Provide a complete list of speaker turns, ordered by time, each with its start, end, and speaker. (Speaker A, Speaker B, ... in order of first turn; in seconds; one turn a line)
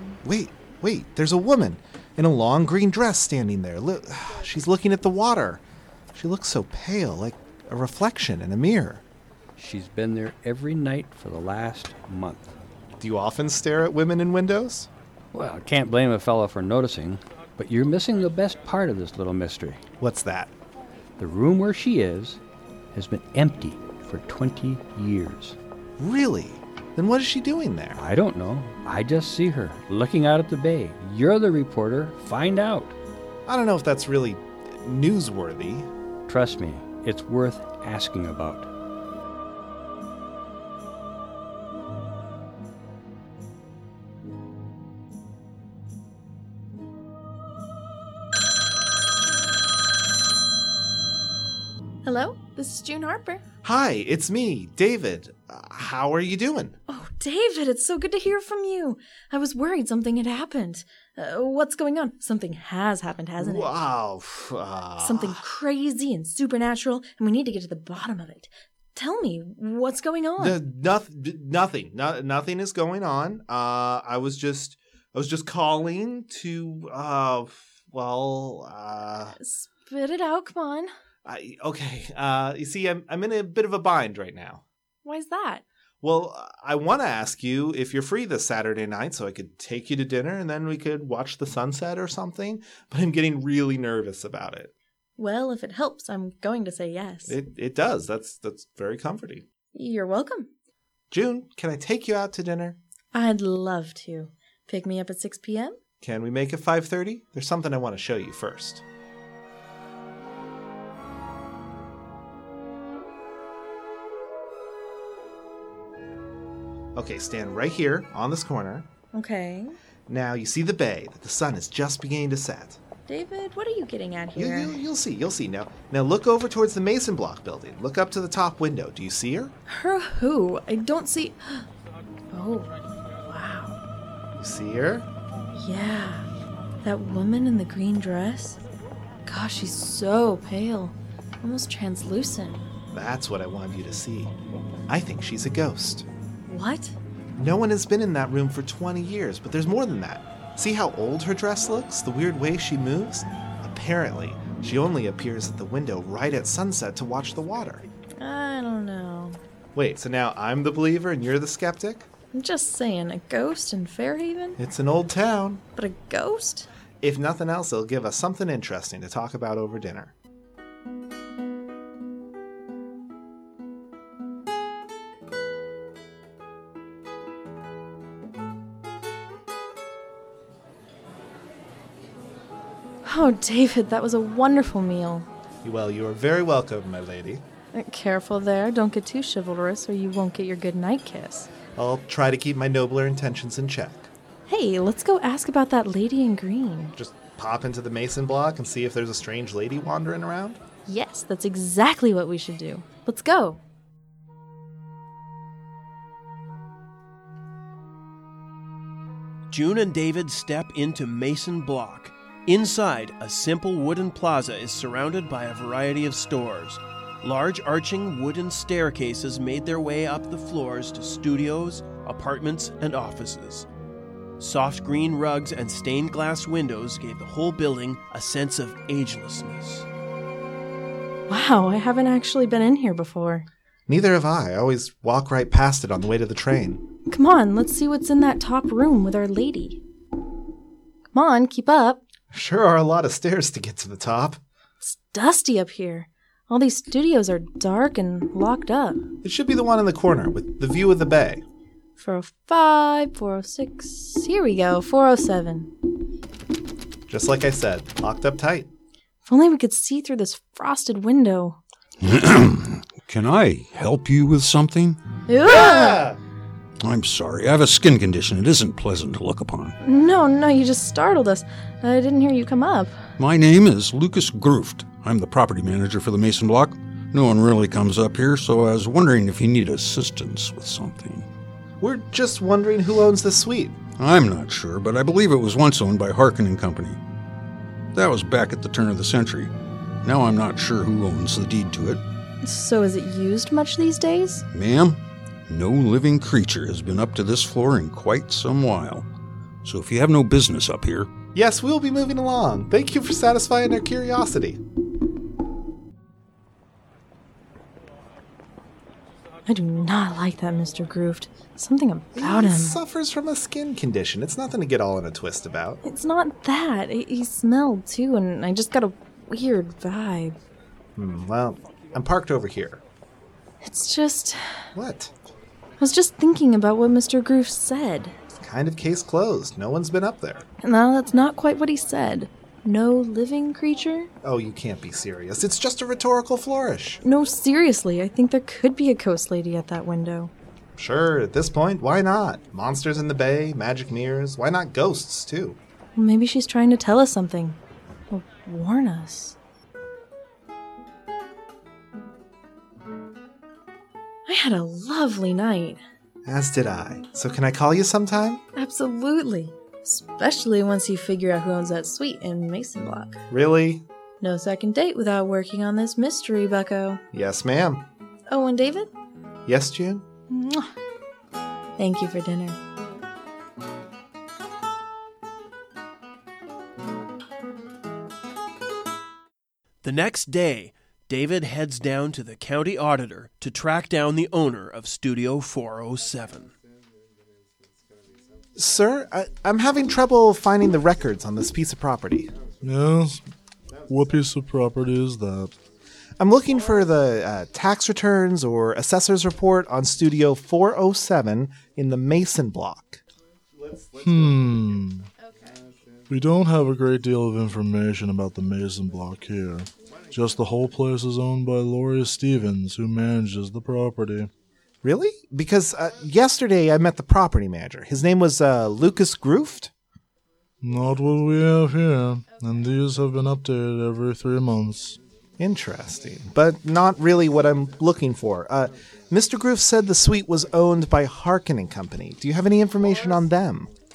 Speaker A: 0.2-5.6
Speaker A: 6.1-9.0
Speaker B: 9.6-12.5
Speaker A: 13.0-14.9
Speaker B: 15.3-19.8
Speaker A: 20.0-20.5
Speaker B: 21.2-22.4
Speaker B: 22.9-25.6
Speaker A: 26.0-28.0
Speaker B: 27.9-33.0
Speaker A: 33.5-35.9
Speaker B: 36.3-38.7
Speaker C: 52.0-53.4
Speaker A: 53.6-56.8
Speaker C: 56.9-63.7
Speaker A: 63.4-65.4
Speaker C: 65.0-70.6
Speaker A: 70.4-79.3
Speaker C: 79.4-80.9
Speaker A: 81.2-84.6
Speaker C: 85.0-85.6
Speaker A: 86.0-94.7
Speaker C: 95.2-97.3
Speaker A: 97.3-99.4
Speaker C: 99.7-100.5
Speaker A: 101.1-102.8
Speaker C: 103.1-105.8
Speaker A: 106.0-108.8
Speaker A: 116.9-118.9
Speaker C: 119.1-119.7
Speaker A: 120.1-122.8
Speaker C: 123.1-124.8
Speaker A: 124.3-129.5
Speaker C: 129.7-131.7
Speaker C: 132.3-133.8
Speaker A: 134.3-135.1
Speaker C: 135.6-136.3
Speaker C: 136.8-138.6
Speaker C: 139.2-142.6
Speaker A: 142.9-144.3
Speaker A: 144.9-146.1
Speaker C: 146.5-146.9
Speaker A: 147.3-157.8
Speaker C: 158.2-159.4
Speaker A: 159.7-162.1
Speaker C: 162.3-164.6
Speaker A: 164.6-165.6
Speaker C: 165.8-166.7
Speaker A: 167.0-170.1
Speaker C: 183.0-185.3
Speaker A: 185.6-187.4
Speaker C: 187.7-191.5
Speaker A: 191.7-194.1
Speaker C: 194.5-196.9
Speaker A: 197.0-200.6
Speaker C: 200.8-203.6
Speaker D: 209.5-223.7
Speaker D: 224.4-229.8
Speaker C: 231.3-233.4
Speaker A: 233.9-236.8
Speaker C: 237.1-239.8
Speaker C: 241.1-242.0
Speaker A: 242.3-244.4
Speaker C: 244.8-249.0
Speaker A: 249.2-251.4
Speaker C: 252.0-255.7
Speaker A: 257.1-258.7
Speaker C: 259.2-261.6
Speaker E: 262.0-265.0
Speaker C: 265.3-266.0
Speaker A: 265.4-266.2
Speaker E: 266.8-269.7
Speaker C: 269.8-273.0
Speaker E: 273.2-281.2
Speaker A: 281.8-283.8
Speaker E: 284.0-287.0
Speaker E: 287.9-289.5
Speaker E: 290.0-292.0
Speaker C: 292.4-294.4
Speaker E: 294.5-299.1
Speaker E: 299.6-301.1
Speaker A: 301.3-304.6
Speaker C: 309.5-312.8
Speaker A: 312.1-315.8
Speaker C: 315.8-320.4
Speaker A: 320.9-322.8
Speaker C: 323.6-324.6
Speaker A: 324.7-325.1
Speaker C: 325.8-328.1
Speaker A: 328.3-330.4
Speaker C: 330.6-334.1
Speaker A: 334.2-337.0
Speaker C: 337.0-340.3
Speaker A: 340.8-345.6
Speaker C: 345.9-347.6
Speaker C: 348.1-349.4
Speaker C: 354.3-355.8
Speaker A: 356.2-358.4
Speaker C: 358.6-363.2
Speaker A: 363.3-363.8
Speaker C: 364.2-367.0
Speaker A: 367.1-367.8
Speaker C: 368.3-368.9
Speaker A: 369.5-370.1
Speaker C: 370.3-370.7
Speaker C: 371.8-372.6
Speaker D: 379.8-386.5
Speaker A: 388.6-392.3
Speaker F: 392.6-393.2
Speaker F: 393.9-395.5
Speaker A: 396.2-403.0
Speaker F: 404.0-405.1
Speaker F: 406.1-414.3
Speaker A: 414.8-419.7
Speaker F: 420.6-425.0
Speaker A: 425.4-433.7